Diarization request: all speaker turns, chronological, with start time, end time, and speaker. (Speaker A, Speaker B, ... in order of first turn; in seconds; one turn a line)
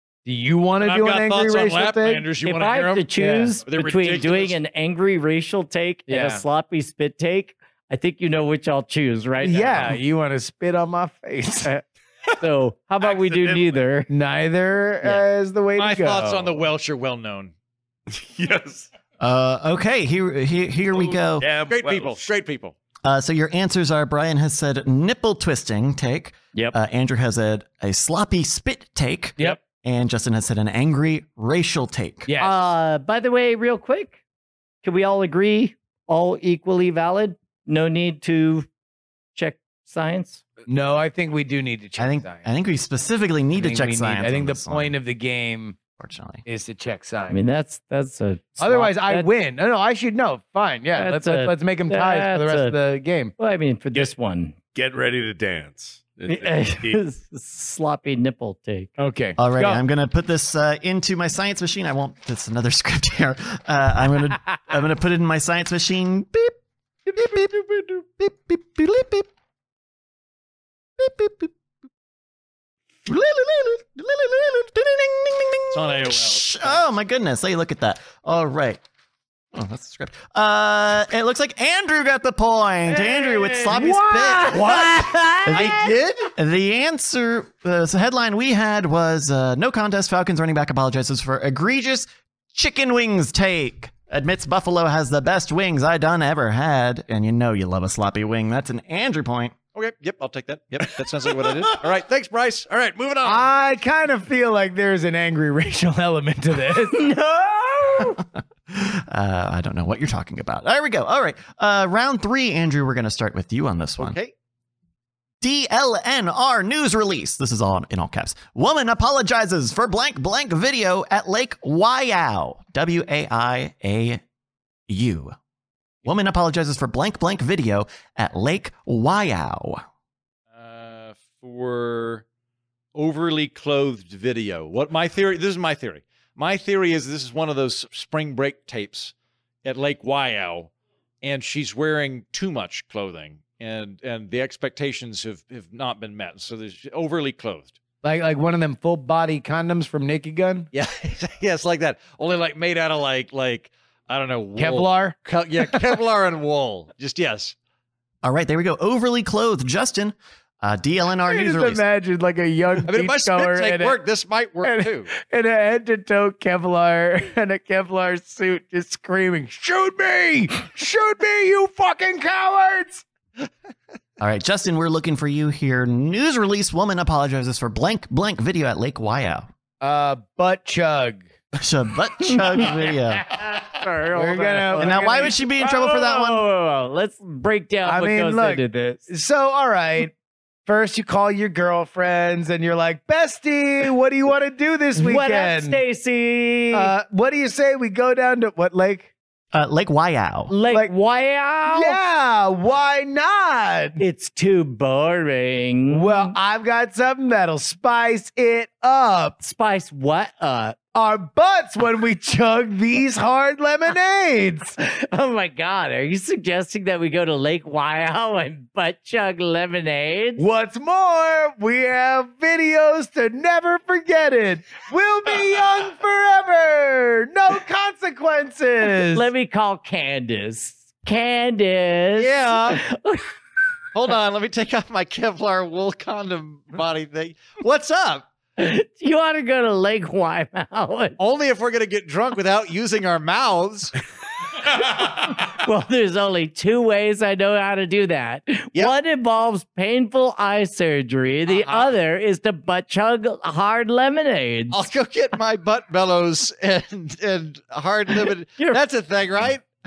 Speaker A: 0.2-2.2
Speaker B: 0.8-3.1
Speaker C: 2.4-9.9
Speaker A: 3.2-3.5
Speaker B: 3.7-4.6
Speaker A: 6.1-6.4
Speaker A: 9.4-11.7
Speaker C: 12.4-14.1
Speaker A: 14.1-16.6
Speaker B: 15.8-17.5
Speaker D: 18.1-18.9
Speaker E: 19.2-21.5
Speaker D: 20.9-22.2
Speaker B: 21.6-22.7
Speaker E: 23.0-32.3
Speaker A: 32.2-32.7
Speaker C: 32.4-34.2
Speaker C: 34.8-38.7
Speaker C: 39.3-40.4
Speaker A: 40.7-42.5
Speaker E: 42.0-44.9
Speaker A: 43.5-45.8
Speaker E: 46.0-46.4
Speaker A: 46.5-47.4
Speaker C: 47.3-49.3
Speaker A: 48.6-53.3
Speaker C: 50.9-52.8
Speaker C: 53.4-54.5
Speaker D: 54.7-57.0
Speaker C: 56.3-58.9
Speaker A: 59.0-59.8
Speaker E: 59.4-66.5
Speaker E: 67.1-69.3
Speaker E: 71.0-71.5
Speaker E: 73.1-78.8
Speaker B: 75.7-76.9
Speaker E: 79.5-84.8
Speaker C: 82.9-85.9
Speaker E: 85.5-99.5
Speaker B: 85.5-86.3
Speaker B: 99.7-103.5
Speaker A: 103.2-107.1
Speaker C: 106.9-108.2
Speaker E: 108.2-114.2
Speaker B: 114.0-114.3
Speaker E: 115.4-124.2
Speaker E: 124.9-125.3
Speaker E: 126.0-129.8
Speaker B: 130.5-132.2
Speaker B: 132.9-139.1
Speaker B: 139.6-140.7
Speaker B: 141.2-147.8
Speaker A: 148.0-150.7
Speaker B: 150.7-157.5
Speaker A: 154.6-155.1
Speaker E: 158.2-161.8
Speaker A: 161.2-164.0
Speaker B: 162.9-165.1
Speaker A: 164.6-173.0
Speaker E: 174.2-179.5
Speaker A: 179.8-181.3
Speaker E: 181.5-183.3
Speaker C: 182.2-189.1
Speaker A: 184.1-185.3
Speaker E: 184.8-186.4
Speaker A: 187.8-190.1
Speaker A: 190.7-195.8
Speaker C: 194.9-196.9
Speaker A: 196.7-199.1
Speaker E: 199.5-200.5
Speaker C: 200.5-202.0
Speaker A: 201.7-204.0
Speaker C: 204.0-206.3
Speaker A: 205.9-209.3
Speaker C: 209.4-210.8
Speaker A: 210.9-214.8
Speaker C: 214.8-220.4
Speaker A: 220.4-229.3
Speaker C: 229.1-233.3
Speaker B: 232.2-232.8
Speaker B: 233.9-238.2
Speaker C: 238.6-241.2
Speaker B: 241.2-243.9
Speaker C: 244.9-254.8
Speaker B: 251.5-251.9
Speaker B: 254.7-259.6